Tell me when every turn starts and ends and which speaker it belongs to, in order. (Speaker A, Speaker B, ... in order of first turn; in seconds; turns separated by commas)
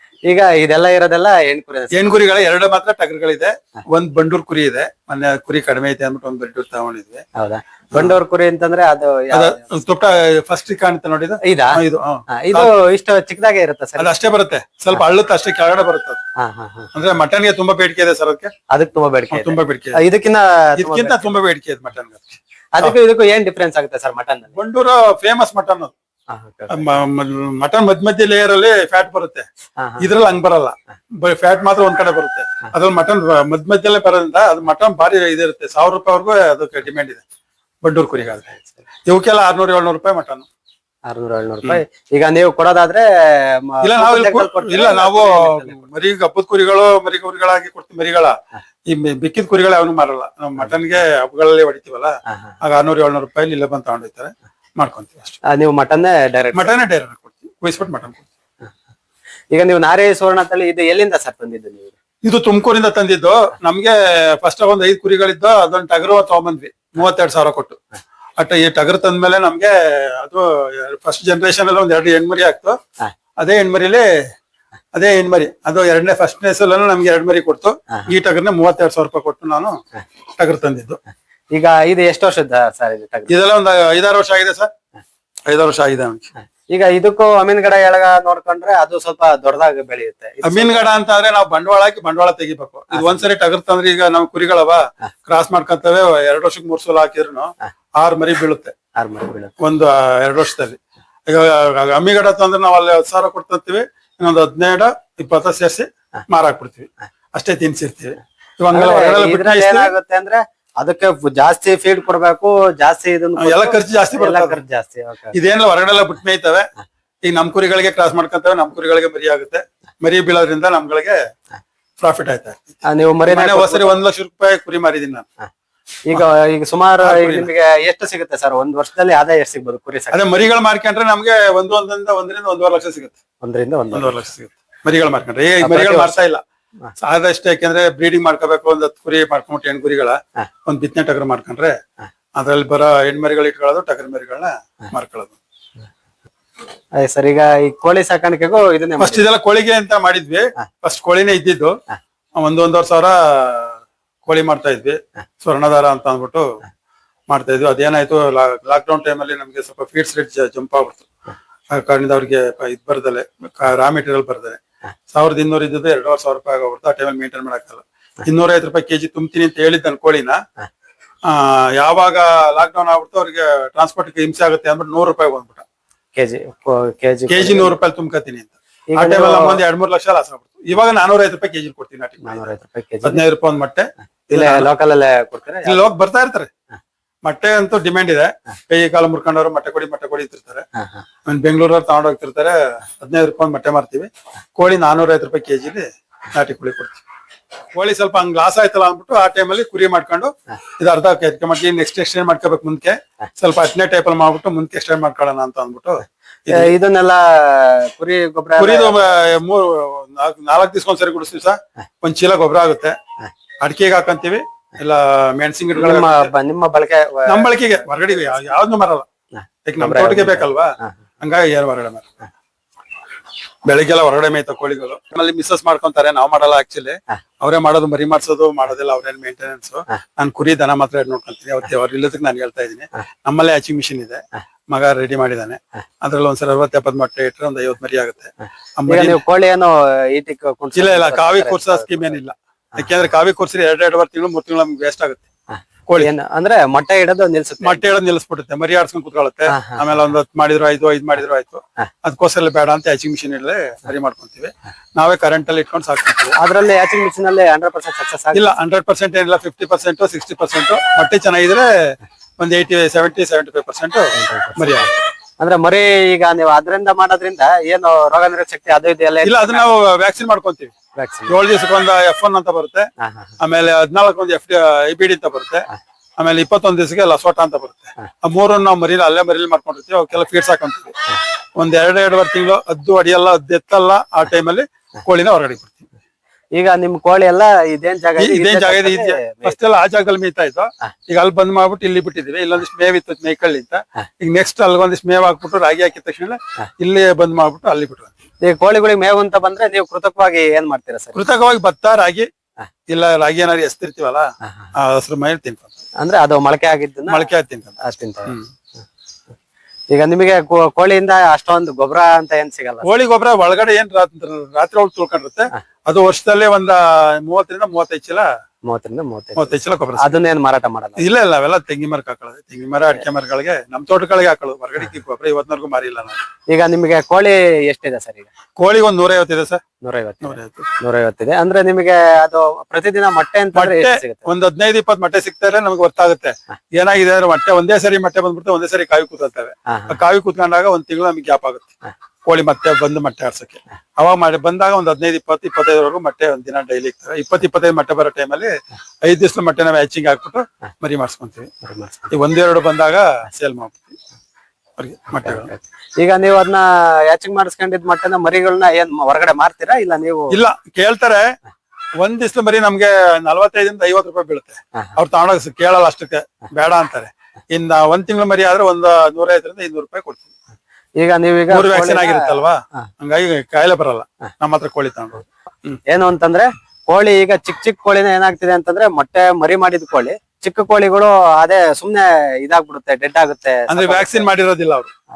Speaker A: 0.3-2.0, Speaker B: 1.9-7.2, Speaker A: 7.3-9.6, Speaker B: 7.9-8.2, Speaker B: 9.3-12.7, Speaker A: 11.4-14.1, Speaker B: 14.0-16.2, Speaker A: 16.4-16.9, Speaker B: 16.9-18.5, Speaker A: 18.7-21.3, Speaker B: 19.3-20.0, Speaker B: 20.8-22.9, Speaker A: 22.7-24.5, Speaker B: 24.5-25.9, Speaker A: 26.3-27.0, Speaker B: 26.7-29.4, Speaker A: 29.8-30.1, Speaker B: 30.0-37.2, Speaker B: 37.8-38.5, Speaker B: 39.1-40.5, Speaker A: 41.1-45.8, Speaker B: 43.8-48.3, Speaker B: 48.9-55.4, Speaker A: 55.4-56.7, Speaker B: 56.5-58.3, Speaker A: 59.5-61.9, Speaker B: 62.2-67.8, Speaker B: 68.4-72.8, Speaker B: 73.4-74.1, Speaker B: 74.9-79.8, Speaker B: 80.4-81.0, Speaker A: 81.5-83.3, Speaker B: 83.3-84.7, Speaker B: 85.5-86.3, Speaker A: 86.7-90.9, Speaker B: 90.4-98.7, Speaker A: 92.9-93.2, Speaker A: 99.0-99.5, Speaker B: 99.6-109.9, Speaker A: 108.7-115.3, Speaker B: 113.4-114.6, Speaker B: 115.3-116.7, Speaker B: 117.2-121.2, Speaker B: 122.0-125.3, Speaker A: 122.8-124.0, Speaker A: 126.1-130.3, Speaker B: 127.0-127.5, Speaker B: 130.1-133.2, Speaker A: 133.4-134.2, Speaker B: 133.9-136.4, Speaker A: 135.6-136.2, Speaker B: 137.0-141.7, Speaker B: 142.3-145.4, Speaker A: 147.0-149.2, Speaker B: 149.0-151.8, Speaker B: 152.4-156.6, Speaker B: 157.3-161.1, Speaker B: 161.7-164.6, Speaker B: 165.1-170.4, Speaker B: 171.2-175.6, Speaker A: 176.1-177.7, Speaker B: 177.3-184.7, Speaker A: 178.9-179.6, Speaker A: 182.2-183.2, Speaker A: 184.3-185.9, Speaker B: 185.7-186.5, Speaker B: 187.2-190.6, Speaker B: 191.2-197.0, Speaker B: 197.7-206.7, Speaker A: 206.5-209.0, Speaker B: 208.6-213.0, Speaker B: 213.6-216.3, Speaker A: 215.8-217.7, Speaker B: 217.3-219.1, Speaker A: 219.4-220.9, Speaker B: 219.6-222.1, Speaker B: 223.6-239.2, Speaker A: 238.9-242.2, Speaker B: 240.7-245.3, Speaker A: 246.0-247.9, Speaker B: 247.6-256.4, Speaker A: 249.5-249.8, Speaker A: 256.4-258.5, Speaker B: 258.3-264.9, Speaker A: 264.1-269.6, Speaker B: 269.2-270.7, Speaker A: 270.9-271.3, Speaker B: 271.3-272.9, Speaker A: 273.0-273.3, Speaker B: 273.4-275.6, Speaker B: 276.2-280.9, Speaker B: 281.6-285.9, Speaker A: 286.5-289.6, Speaker B: 288.2-298.1, Speaker A: 298.4-301.2, Speaker B: 301.1-302.3, Speaker B: 302.9-305.7, Speaker A: 306.0-308.4, Speaker B: 307.1-308.5, Speaker A: 309.9-312.9, Speaker B: 312.8-318.3, Speaker A: 318.7-321.0, Speaker B: 319.4-320.2, Speaker B: 321.0-326.2, Speaker A: 326.5-328.3, Speaker B: 328.6-329.6, Speaker A: 329.8-334.3, Speaker B: 330.2-330.7, Speaker B: 333.5-341.7, Speaker B: 342.2-348.5, Speaker B: 349.0-351.5, Speaker A: 351.6-352.1, Speaker B: 352.1-354.0, Speaker B: 354.8-355.5, Speaker A: 355.2-360.4, Speaker B: 360.3-361.3, Speaker B: 362.0-370.2, Speaker A: 371.0-372.4, Speaker B: 371.5-375.8, Speaker A: 375.9-384.3, Speaker B: 383.7-384.9